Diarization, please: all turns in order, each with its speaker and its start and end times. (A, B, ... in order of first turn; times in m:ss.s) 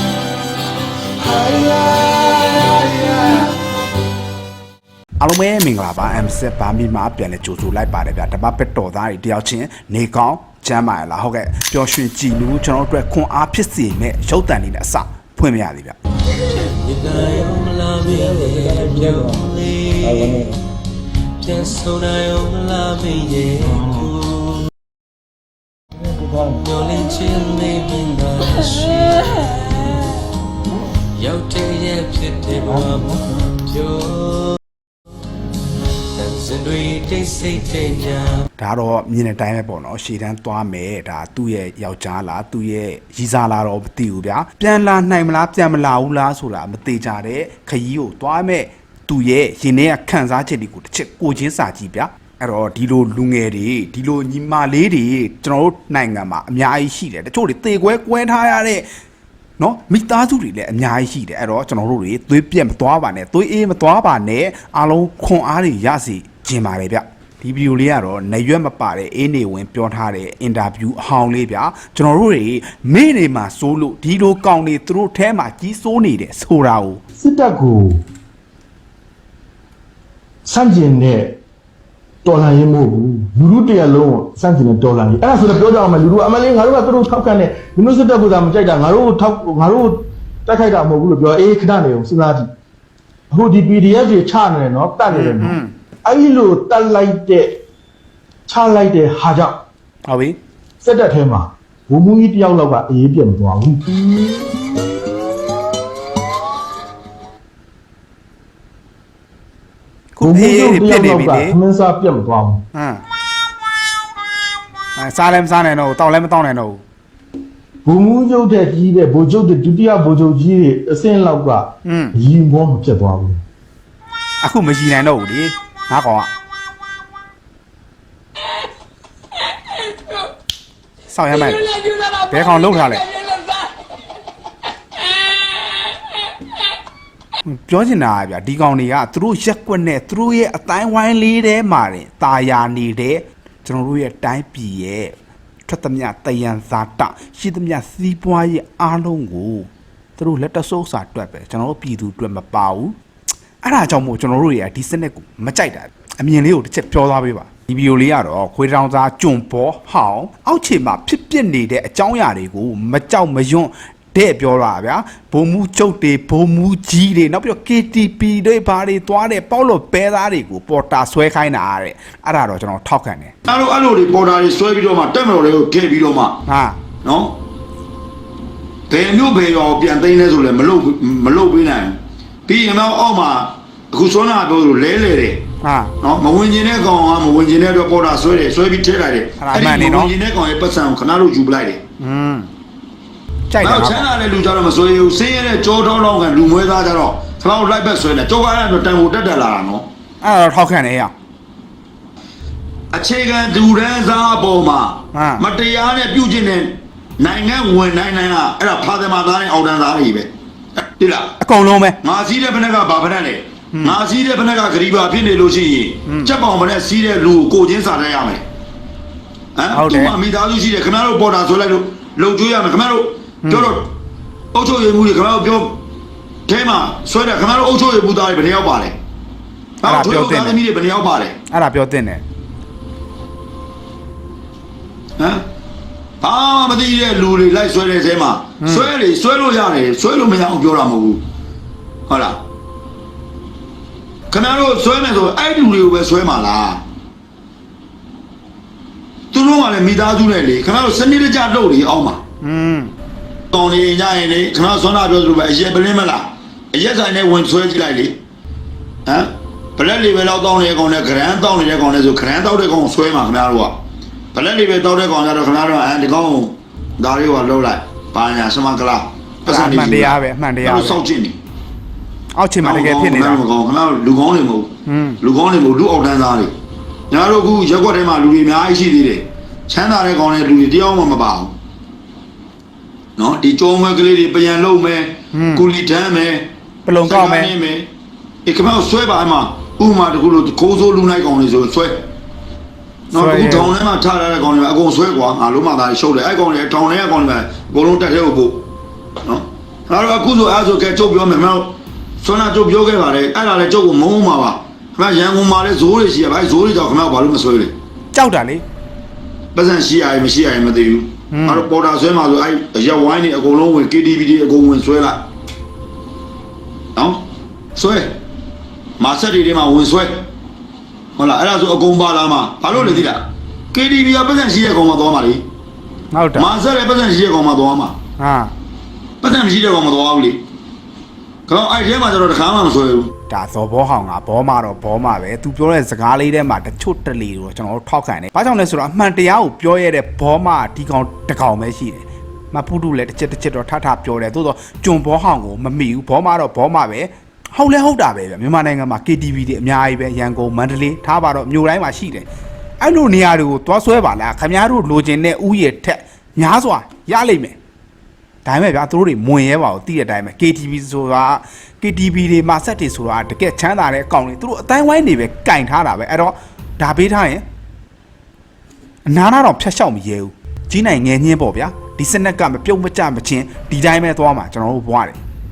0:01.5-0:02.0 A
0:05.2-0:16.0 B
0:16.4-0:20.6 C
0:21.4-0:24.7 C
0:26.4-0:30.2 C
0:31.2-0:34.6 C
0:36.1-0:38.4 C
0:38.6-0:58.9 B
0:59.6-1:17.0 B
1:17.2-1:18.0 A
1:20.4-1:21.3 A
1:22.2-1:32.4 A
1:33.3-1:37.5 A
1:35.1-1:35.7 B
1:38.5-1:39.6 A
1:40.1-1:40.4 B
1:40.8-1:43.8 A
1:50.2-1:51.6 B
1:50.2-1:52.6 A
1:52.7-1:53.0 B
1:55.0-1:56.8 B
1:57.8-2:03.4 A
2:01.8-2:02.1 B
2:04.4-2:06.3 B
2:11.1-2:11.7 B
2:11.7-2:12.3 C
2:12.3-2:13.1 B
2:13.1-2:13.7 C
2:15.0-2:15.8 C
2:17.4-2:25.1 B
2:25.7-2:32.9 B
2:33.6-2:53.3 B
2:53.5-2:56.4 D
2:56.5-2:56.8 B
2:57.0-2:57.4 D
2:58.9-3:05.4 D
3:05.6-3:05.9 B
3:06.0-3:11.8 D
3:09.4-3:10.1 B
3:12.0-3:12.5 B
3:13.5-3:14.1 B
3:13.6-3:19.9 D
3:20.2-3:21.1 B
3:22.9-3:30.3 D
3:25.1-3:25.4 B
3:31.0-3:31.4 D
3:31.4-3:32.0 B
3:32.0-3:38.4 D
3:33.7-3:34.0 B
3:36.1-3:36.3 B
3:39.6-3:43.9 D
3:39.7-3:40.2 B
3:43.4-3:43.8 B
3:44.5-3:45.8 D
3:46.5-3:49.0 D
3:49.8-3:51.4 D
3:49.8-3:50.6 B
3:51.5-3:52.2 B
3:55.2-3:55.4 D
3:56.2-4:01.2 D
3:58.6-3:58.9 B
4:02.1-4:02.4 D
4:04.3-4:06.8 D
4:09.3-4:12.2 D
4:12.4-4:12.9 B
4:13.5-4:18.2 D
4:19.0-4:23.8 D
4:24.3-4:31.4 D
4:29.5-4:31.0 B
4:32.4-4:33.4 B
4:32.6-4:36.5 D
4:34.9-4:35.2 B
4:37.1-4:41.5 D
4:43.2-4:46.5 D
4:45.3-4:45.7 B
4:46.8-4:47.5 B
4:47.0-4:47.9 D
4:48.4-4:52.1 D
4:53.1-4:58.6 D
4:53.1-4:53.7 B
4:59.2-5:07.7 D
5:08.1-5:08.6 B
5:09.5-5:15.2 D
5:11.3-5:11.7 B
5:16.9-5:17.2 D
5:17.7-5:18.2 D
5:19.0-5:20.3 D
5:21.2-5:25.4 D
5:22.7-5:23.1 B
5:26.1-5:26.5 B
5:26.4-5:28.0 D
5:28.2-5:28.5 B
5:29.2-5:30.4 D
5:31.5-5:33.1 D
5:33.3-5:52.3 B
5:52.8-5:57.6 B
5:58.4-6:07.4 B
6:09.0-6:15.2 B